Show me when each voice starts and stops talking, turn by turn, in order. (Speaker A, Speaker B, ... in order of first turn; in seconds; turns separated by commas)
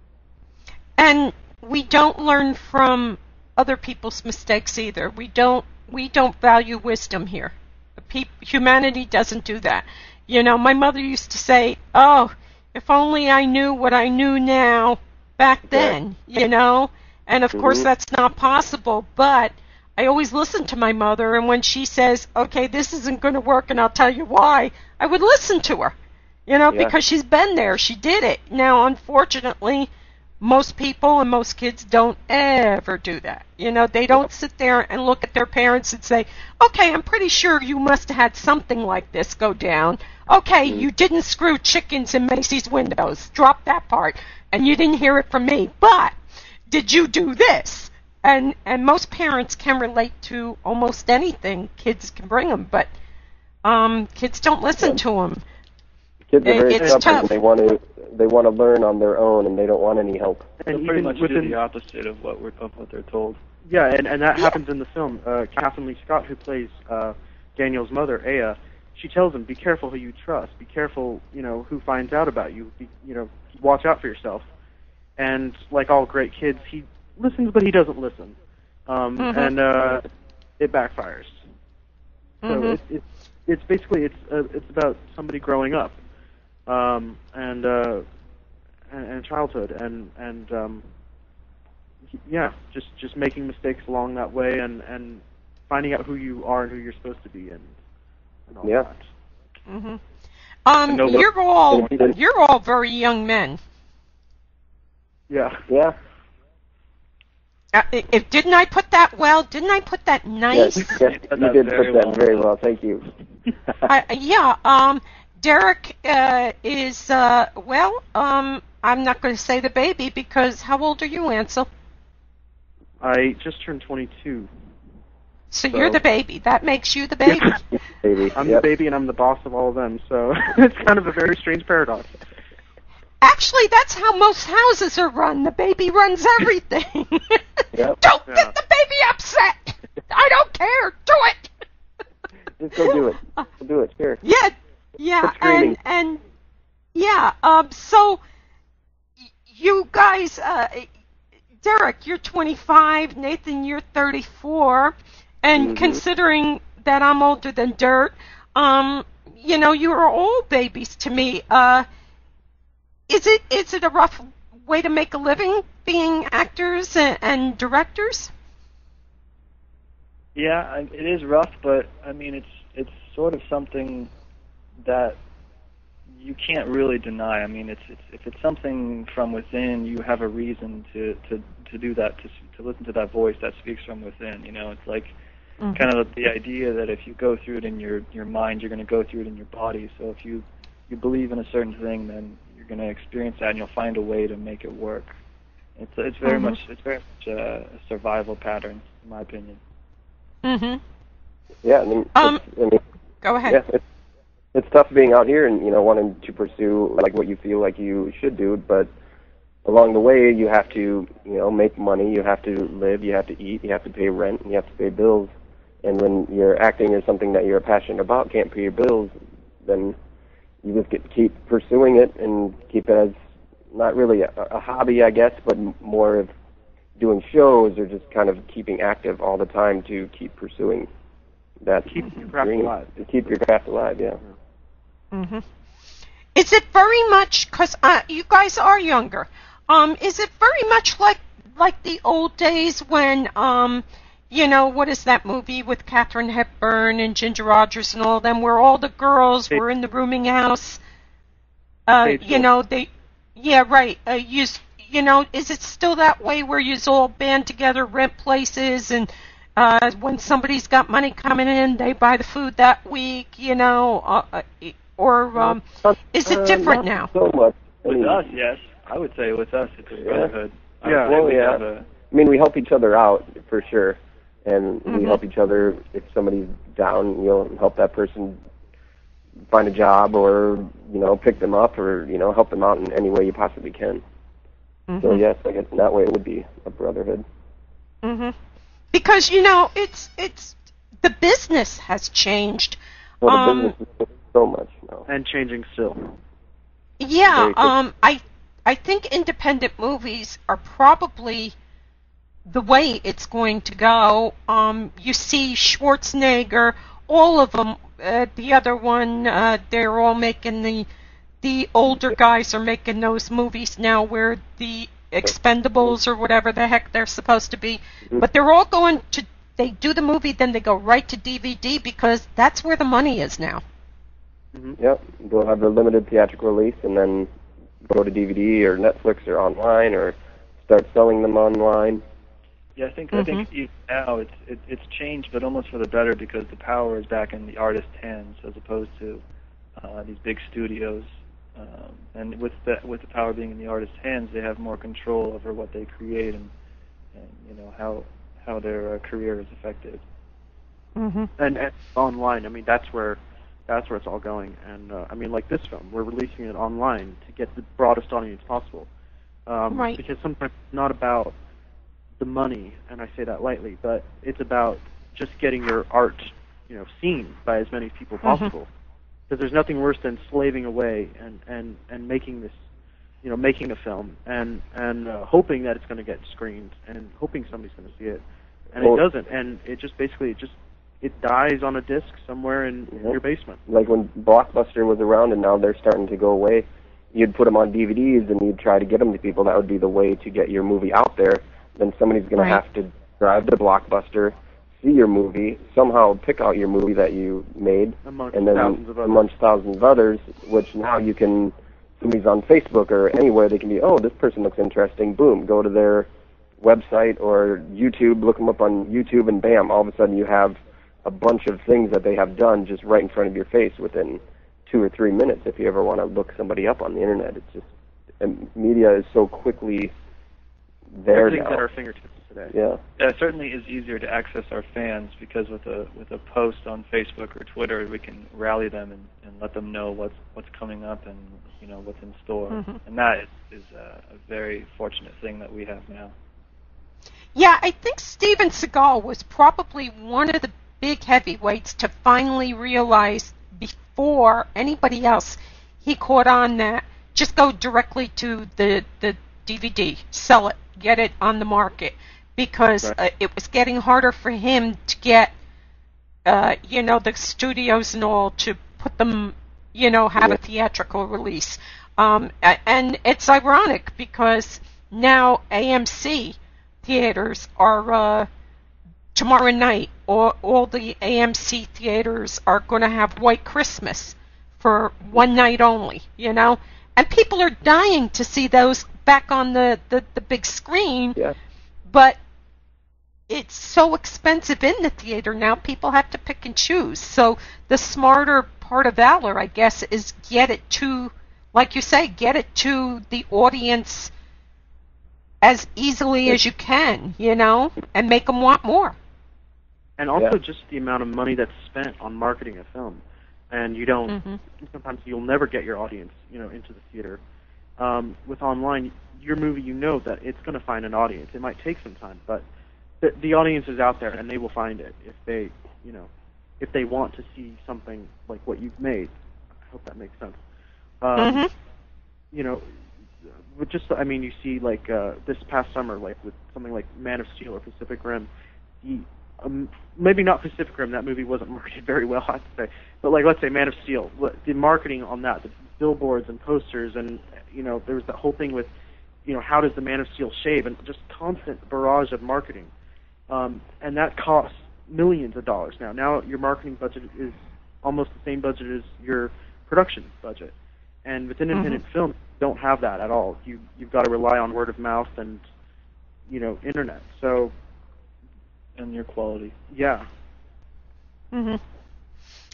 Speaker A: 1.0-25.9, Speaker B: 15.7-16.0, Speaker B: 17.5-17.9, Speaker A: 26.5-29.9, Speaker B: 26.7-26.9, Speaker A: 30.4-46.2, Speaker A: 46.7-52.9, Speaker A: 53.6-55.4, Speaker B: 56.3-60.5, Speaker A: 56.4-57.3, Speaker C: 56.8-57.1, Speaker C: 60.7-61.6, Speaker D: 60.7-63.4, Speaker C: 63.7-74.5, Speaker C: 75.2-78.3, Speaker C: 78.9-80.0, Speaker A: 79.2-79.5, Speaker C: 80.6-81.4, Speaker A: 82.4-82.8, Speaker C: 82.5-86.0, Speaker C: 86.7-88.0, Speaker C: 88.9-90.8, Speaker C: 92.2-97.7, Speaker C: 98.5-99.1, Speaker A: 99.7-100.0, Speaker A: 100.7-103.6, Speaker B: 101.1-102.2, Speaker C: 105.3-105.6, Speaker B: 105.7-106.0, Speaker A: 107.7-111.0, Speaker B: 110.5-113.0, Speaker D: 110.8-112.5, Speaker A: 113.9-121.7, Speaker C: 123.0-124.5, Speaker A: 125.5-127.6, Speaker B: 128.0-128.7, Speaker C: 128.3-132.1, Speaker A: 133.2-141.5, Speaker B: 137.7-138.0, Speaker B: 142.6-144.2, Speaker A: 142.9-143.4, Speaker A: 144.2-146.2, Speaker B: 145.2-145.8, Speaker A: 146.9-148.2, Speaker A: 149.5-150.9, Speaker A: 151.6-161.9, Speaker B: 155.6-156.0, Speaker A: 163.1-168.3, Speaker D: 170.3-174.1, Speaker D: 174.8-175.2, Speaker D: 176.1-185.1, Speaker D: 185.7-195.1, Speaker D: 195.8-199.6, Speaker A: 196.2-196.6, Speaker A: 200.4-200.8, Speaker B: 201.6-202.8, Speaker A: 202.2-202.4, Speaker A: 203.2-203.6, Speaker B: 203.5-203.8, Speaker B: 204.5-208.9, Speaker B: 209.7-215.3, Speaker B: 215.8-219.1, Speaker B: 219.7-220.0, Speaker B: 220.6-223.2, Speaker B: 223.7-226.3, Speaker B: 227.0-230.9, Speaker B: 231.6-234.2, Speaker C: 231.9-232.9, Speaker A: 235.1-235.4, Speaker A: 236.3-250.8, Speaker A: 251.9-265.6, Speaker C: 252.0-252.5, Speaker B: 265.4-268.3, Speaker A: 266.1-267.1, Speaker D: 267.9-271.9, Speaker B: 270.0-270.3, Speaker C: 270.9-271.2, Speaker B: 271.0-278.4, Speaker A: 274.9-275.2, Speaker B: 279.5-284.0, Speaker A: 284.9-285.2, Speaker B: 285.0-287.2, Speaker A: 288.0-288.4, Speaker A: 288.9-293.8, Speaker B: 293.2-295.1, Speaker C: 295.1-296.2, Speaker A: 297.0-301.6, Speaker B: 297.3-297.7, Speaker A: 302.5-310.9, Speaker A: 311.4-323.6, Speaker B: 324.8-327.3, Speaker B: 327.8-332.0, Speaker D: 332.8-339.2, Speaker A: 333.1-333.4, Speaker D: 339.8-346.5, Speaker D: 347.1-350.0, Speaker A: 351.0-351.3, Speaker C: 351.4-358.9, Speaker C: 359.5-361.4, Speaker A: 359.7-360.0, Speaker C: 362.2-368.7, Speaker A: 368.2-368.5, Speaker C: 369.3-372.6, Speaker C: 373.2-383.6, Speaker B: 383.7-406.1, Speaker C: 398.1-399.3, Speaker B: 406.6-417.7, Speaker B: 418.2-419.9, Speaker B: 420.9-421.6, Speaker C: 421.1-422.5, Speaker B: 422.5-422.8, Speaker D: 423.0-436.1, Speaker A: 437.4-455.3, Speaker A: 456.3-468.3, Speaker A: 469.1-481.2, Speaker A: 481.9-482.2, Speaker A: 483.3-494.1, Speaker A: 495.4-499.0, Speaker C: 500.0-507.2, Speaker A: 504.1-504.4, Speaker C: 507.8-512.5, Speaker C: 513.0-516.1, Speaker C: 516.6-519.1, Speaker C: 519.7-520.4, Speaker C: 521.0-521.5, Speaker A: 521.2-521.5, Speaker C: 522.3-522.7, Speaker C: 523.5-528.3, Speaker C: 528.8-538.7, Speaker C: 539.3-542.7, Speaker C: 543.3-550.5, Speaker C: 551.0-555.4, Speaker A: 551.5-551.8, Speaker C: 556.3-557.5, Speaker D: 558.8-559.5, Speaker C: 559.7-560.1, Speaker A: 561.3-561.6